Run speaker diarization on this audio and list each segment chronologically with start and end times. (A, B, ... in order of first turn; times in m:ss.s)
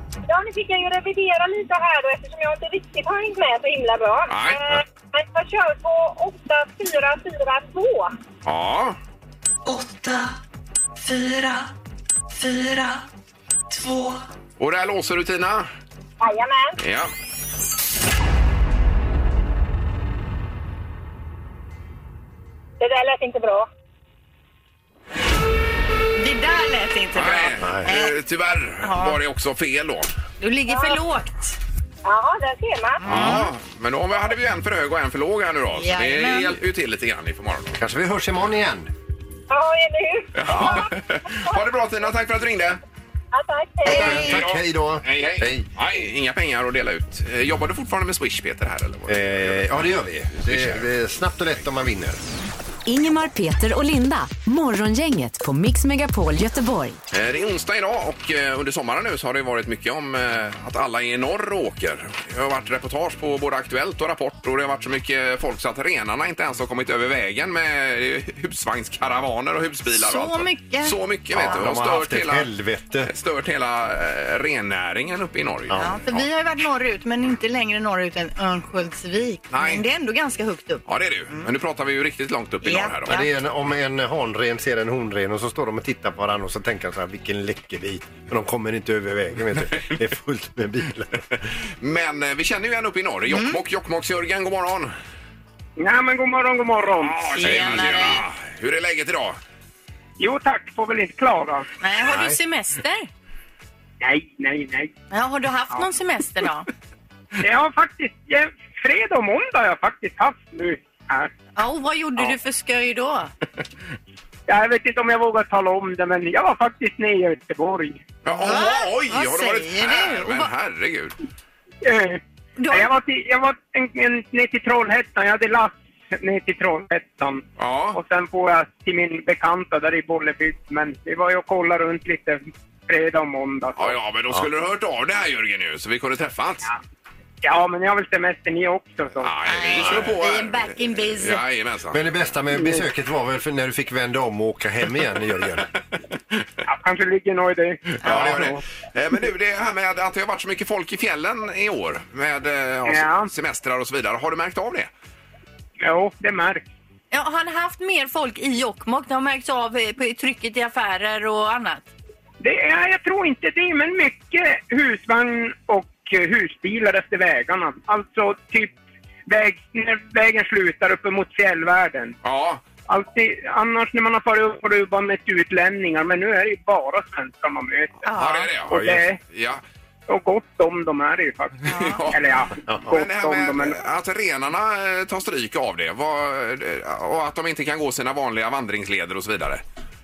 0:00.2-0:08.1 A
0:04.3-0:04.6 B
0:08.4-0:09.0 B
0:09.6-0:10.4 C
0:11.0-0:11.7 C
0:12.3-0:13.0 C
0:13.7-0:14.2 C
0:14.6-0:15.7 B
0:16.2-0:16.8 A
0:16.8-0:17.1 B
0:22.8-0:23.7 A
0:26.2-0:28.1 D
0:27.1-0:30.1 B
0:27.6-0:27.9 E
0:28.8-0:29.2 D
0:30.4-0:31.5 D
0:30.7-0:31.0 A
0:32.0-0:33.1 A
0:33.0-0:33.5 D
0:33.0-0:37.8 B
0:35.8-0:36.6 D
0:37.8-0:38.9 E
0:39.5-0:40.9 A
0:40.3-0:42.8 B
0:43.3-0:44.4 A
0:43.8-0:45.7 E
0:43.9-0:50.9 B
0:49.1-0:52.2 E
0:52.8-0:57.0 F
0:57.1-1:12.5 B
1:09.9-1:10.9 D
1:11.3-1:13.1 E
1:13.0-1:16.3 B
1:15.8-1:21.5 D
1:19.5-1:19.8 B
1:20.8-1:23.2 B
1:22.6-1:23.3 D
1:23.0-1:31.3 E
1:31.8-1:34.9 B
1:33.3-1:33.6 D
1:35.8-1:37.6 G
1:37.0-1:39.4 B
1:37.4-1:38.2 D
1:40.2-1:41.6 G
1:41.8-1:43.1 D
1:42.0-1:42.4 E
1:44.0-1:44.9 G
1:45.1-1:46.7 D
1:47.4-1:51.3 G
1:51.6-1:53.3 D
1:54.5-1:58.0 G
1:58.2-2:01.1 B
1:58.4-2:00.5 D
2:01.8-2:14.0 G
2:02.6-2:02.9 D
2:07.6-2:08.0 B
2:13.8-2:16.7 B
2:17.4-2:19.3 G
2:19.2-2:22.0 B
2:19.4-2:21.4 D
2:19.8-2:20.1 E
2:21.9-2:25.7 E
2:26.6-2:28.6 G
2:28.0-2:34.9 B
2:28.0-2:28.5 E
2:32.8-2:33.3 G
2:35.8-2:36.6 G
2:37.1-2:41.9 D
2:42.4-2:52.2 G
2:52.2-2:52.6 B
2:52.9-2:58.0 G
2:58.0-2:58.5 D
2:58.1-2:59.6 B
2:58.7-2:59.2 G
3:00.1-3:03.8 G
3:01.7-3:02.0 D
3:01.7-3:02.3 B
3:02.9-3:09.6 B